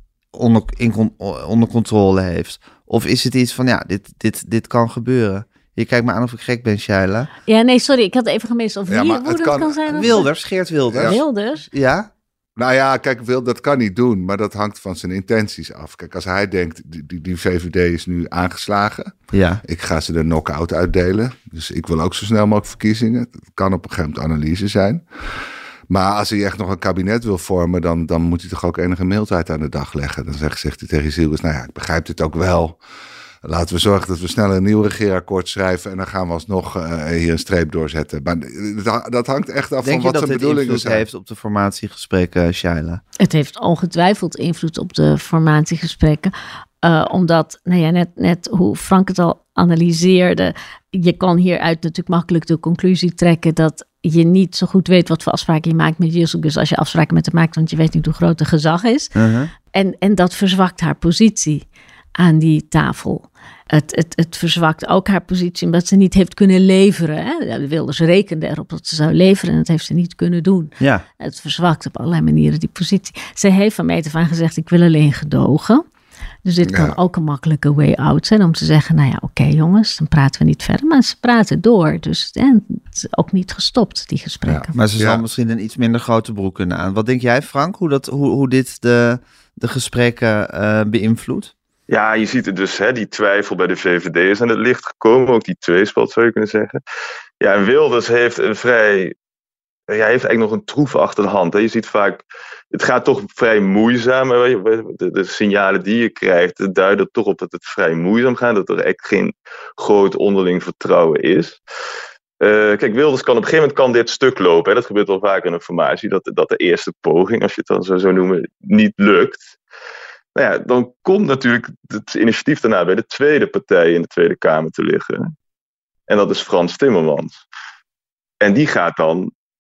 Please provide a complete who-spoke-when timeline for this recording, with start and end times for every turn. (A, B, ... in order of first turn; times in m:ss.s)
0:00.3-0:07.3 A
0:07.5-0:10.3 B
0:08.9-0:10.3 C
0:09.9-0:12.1 A
0:10.9-0:11.2 C
0:11.0-0:11.7 B
0:12.6-0:25.0 C
0:19.3-0:19.6 A
0:25.9-0:32.8 C
0:33.4-0:41.1 C
0:39.8-0:43.0 A
0:43.2-0:46.3 B
0:46.8-1:01.7 B
0:59.2-0:59.5 A
1:02.2-1:15.8 B
1:10.8-1:11.0 A
1:16.4-1:24.8 B
1:16.6-1:17.0 C
1:24.5-1:25.2 C
1:24.7-1:31.5 A
1:31.9-1:36.8 D
1:37.4-1:39.1 D
1:39.9-1:51.6 D
1:52.4-1:59.5 D
2:00.4-2:05.3 D
2:06.1-2:07.4 D
2:08.4-2:09.3 D